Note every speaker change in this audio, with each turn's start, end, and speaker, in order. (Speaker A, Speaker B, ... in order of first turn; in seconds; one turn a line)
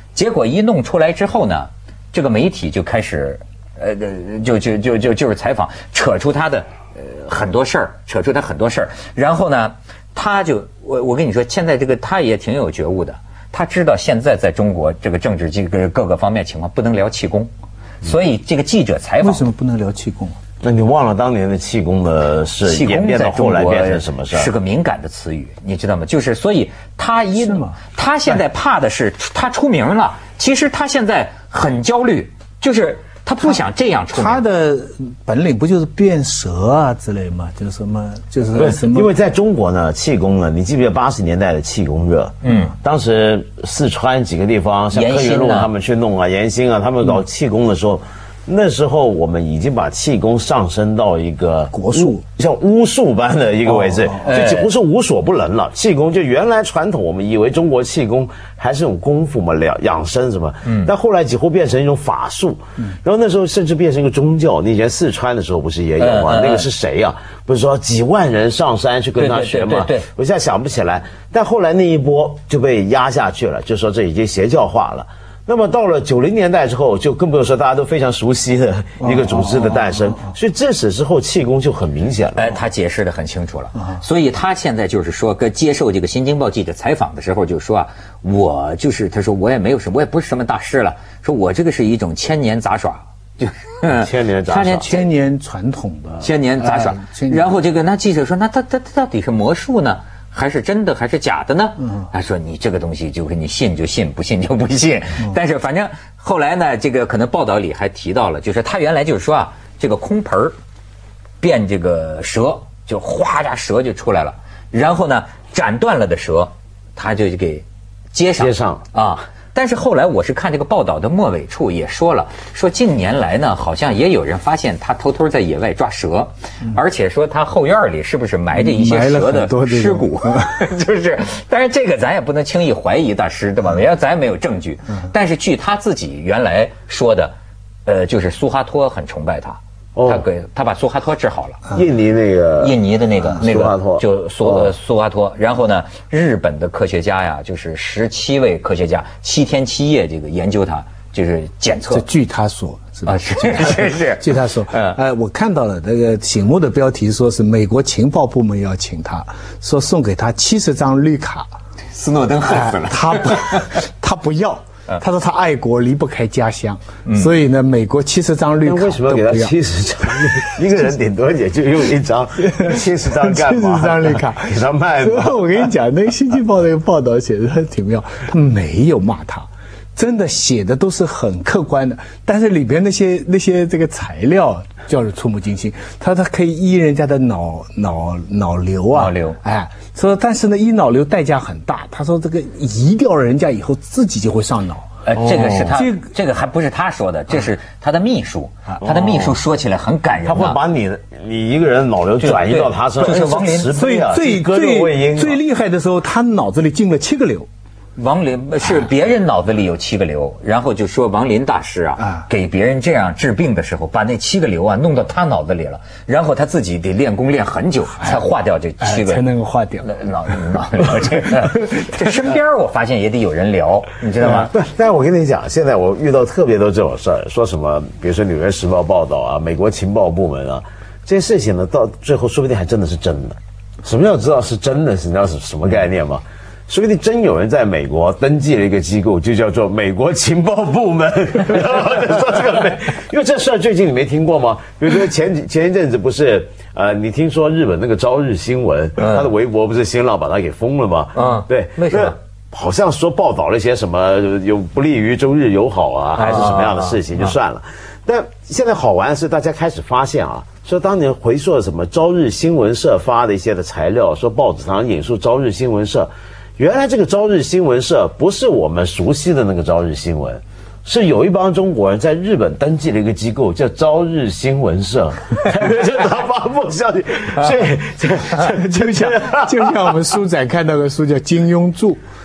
Speaker A: 0.1-17.5
Speaker A: 18.0-19.5
Speaker B: 19.2-20.4
Speaker C: 20.6-24.5
Speaker A: 22.6-34.4
Speaker B: 27.4-27.8
Speaker B: 33.4-39.1
Speaker C: 38.5-82.6
Speaker A: 42.4-42.7
Speaker A: 44.9-45.7
Speaker B: 51.7-52.2
Speaker B: 53.8-54.2
Speaker A: 54.2-54.7
Speaker A: 66.0-66.7
Speaker A: 69.2-70.1
Speaker B: 79.3-79.6
Speaker A: 82.3-95.0
Speaker C: 93.9-95.0
Speaker B: 94.8-97.5
Speaker A: 96.2-110.5
Speaker A: 111.4-137.3
Speaker C: 118.4-118.8
Speaker B: 128.5-130.6
Speaker A: 137.8-141.7
Speaker C: 139.9-140.2
Speaker C: 141.7-144.7
Speaker A: 142.6-152.1
Speaker B: 151.9-161.5
Speaker A: 153.1-155.0
Speaker A: 161.9-163.7
Speaker B: 162.5-169.6
Speaker A: 167.1-167.3
Speaker C: 168.6-175.7
Speaker B: 170.1-170.5
Speaker B: 172.4-196.1
Speaker A: 188.9-189.4
Speaker A: 195.0-200.6
Speaker C: 198.8-199.4
Speaker C: 200.2-205.4
Speaker A: 202.2-203.7
Speaker B: 203.7-207.5
Speaker A: 207.9-219.2
Speaker B: 212.0-212.3
Speaker B: 218.0-218.3
Speaker B: 218.8-219.9
Speaker A: 219.8-224.5
Speaker B: 220.5-222.2
Speaker C: 224.2-279.7
Speaker A: 249.0-249.3
Speaker A: 251.1-252.2
Speaker A: 256.1-257.0
Speaker B: 278.4-282.0